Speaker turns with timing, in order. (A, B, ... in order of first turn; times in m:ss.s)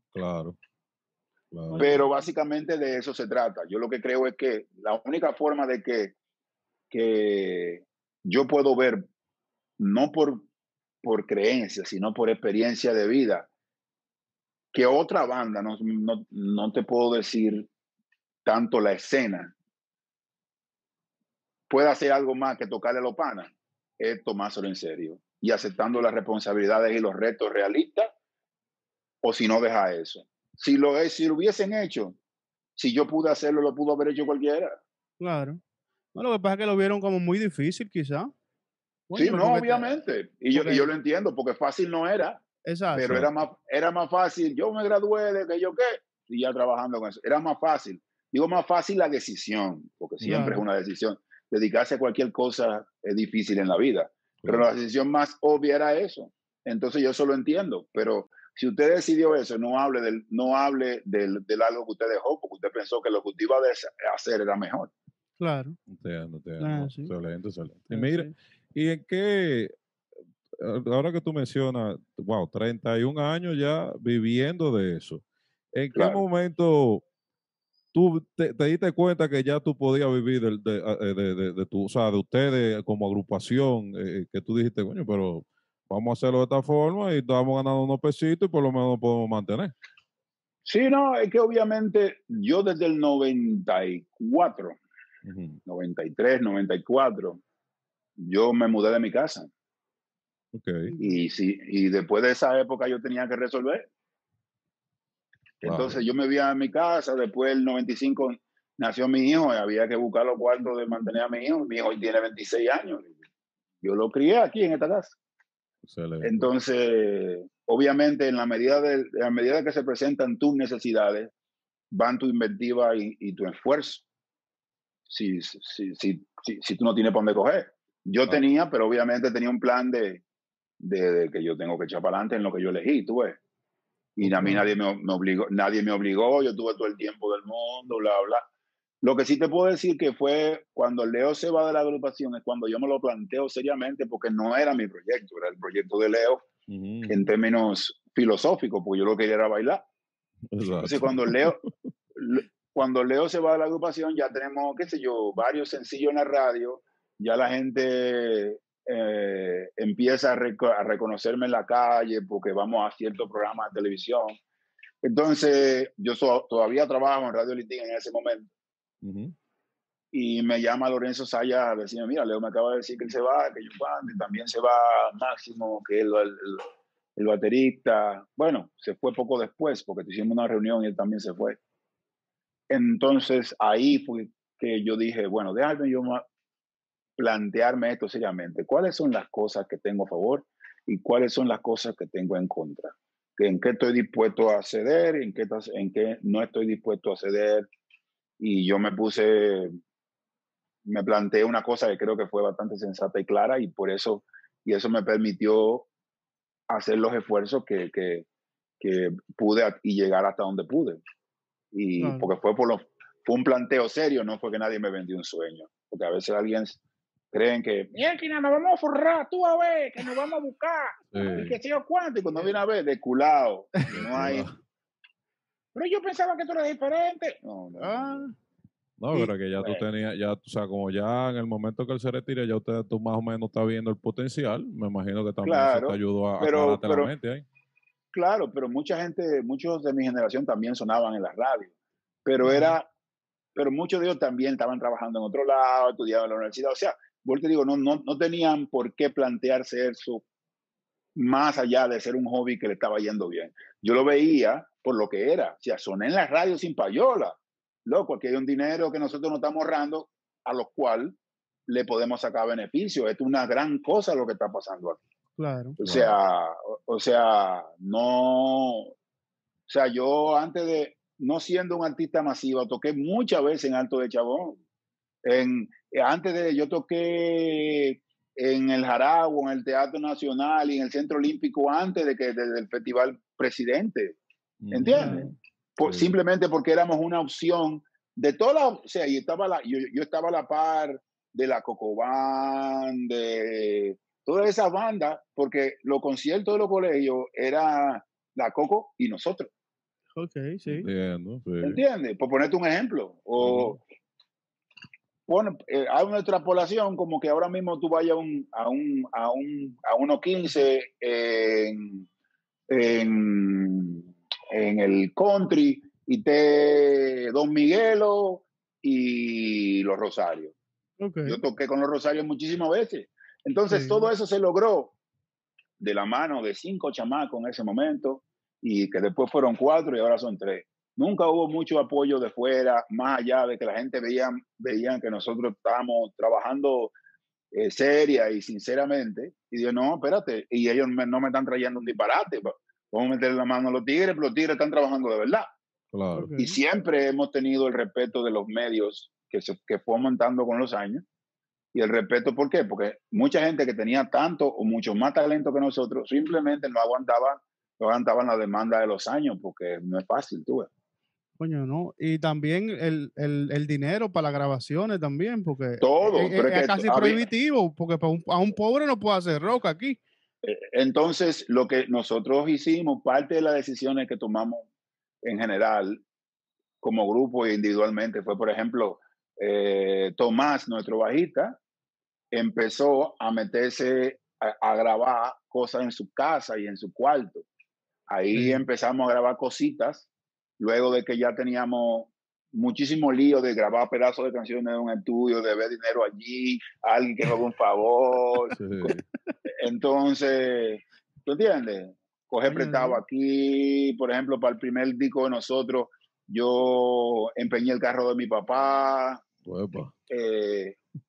0:00.1-0:00.6 A
0:01.5-0:01.9 A
0:01.7-0:02.2 B
0:01.8-0:06.1 C
0:06.9-0:09.1 C
0:09.8-0:10.5 C
0:11.0-0:13.5 C
0:14.7-0:17.7 C
0:18.4-0:19.5 C
0:21.7-0:28.1 C
0:29.2-0:32.2 C
0:32.8-0:34.8 C
0:35.2-0:35.6 B
0:36.2-0:38.3 B
0:39.1-0:39.9 B
0:39.2-0:42.4 C
0:40.5-0:40.9 B
0:42.7-0:43.1 B
0:43.0-1:04.9 C
0:43.0-0:43.3 A
0:50.2-0:50.5 A
0:50.2-0:50.6 B
0:54.4-0:54.7 A
1:05.4-1:05.8 B
1:05.9-1:09.8 A
1:06.6-1:07.1 B
1:07.9-1:08.3 B
1:10.6-1:17.0 A
1:16.0-1:16.2 C
1:17.9-1:29.8 A
1:30.6-1:34.8 C
1:35.2-1:35.6 A
1:35.7-1:37.4 C
1:38.2-1:39.5 C
1:40.5-1:40.9 A
1:40.9-1:41.2 B
1:41.0-1:43.9 C
1:45.6-1:53.1 C
1:45.6-1:46.0 A
1:53.8-1:55.2 C
1:55.8-1:56.5 A
1:56.2-2:01.3 C
2:01.9-2:04.0 C
2:05.1-2:10.2 C
2:10.8-2:13.4 C
2:14.2-2:18.5 C
2:14.2-2:14.7 A
2:19.0-2:26.5 C
2:26.7-2:27.3 A
2:27.1-2:29.8 C
2:30.5-2:31.7 A
2:30.8-2:31.6 C
2:32.2-2:44.4 C
2:45.0-2:48.5 C
2:49.0-2:49.4 A
2:50.1-3:01.6 C
3:02.7-3:06.2 C
3:07.2-3:17.7 C
3:18.4-3:19.8 C
3:20.8-3:25.9 C
3:26.7-3:28.3 C
3:28.8-3:31.0 C
3:31.7-3:36.8 C
3:32.0-3:32.3 B
3:37.3-3:44.5 C
3:41.1-3:41.6 A
3:43.9-3:44.5 A
3:45.8-3:48.3 C
3:47.8-3:48.3 B
3:49.0-3:57.4 A
3:49.2-3:49.8 C
3:55.4-3:57.1 C
3:58.1-4:01.7 C
4:02.2-4:02.9 C
4:02.4-4:02.7 B
4:03.6-4:10.2 C
4:11.2-4:25.0 C
4:25.4-4:25.8 B
4:25.8-4:28.9 C
4:25.8-4:26.2 A
4:29.7-4:34.6 C
4:35.2-4:44.2 C
4:44.6-4:46.2 A
4:44.7-4:59.5 C
4:45.0-4:45.3 B
5:00.2-5:00.9 B
5:00.7-5:01.8 A
5:01.6-5:03.8 C
5:03.4-5:03.8 A
5:05.3-5:12.1 C
5:12.7-5:20.5 C
5:21.0-5:21.4 B
5:21.2-5:25.0 C
5:23.7-5:24.1 B
5:25.8-5:36.9 C
5:37.5-5:45.5 C
5:45.9-5:46.3 A
5:46.2-5:46.6 B
5:46.4-5:51.0 C
5:51.7-6:00.7 C
6:01.4-6:10.0 B
6:05.8-6:07.2 C
6:10.4-6:14.7 C
6:15.2-6:16.0 C
6:16.8-6:21.6 C
6:22.3-6:27.5 C
6:28.1-6:38.6 C
6:28.3-6:28.7 B
6:38.6-6:39.0 A
6:39.6-6:49.2 C
6:42.5-6:43.0 B
6:49.4-6:49.9 A
6:50.1-6:50.8 C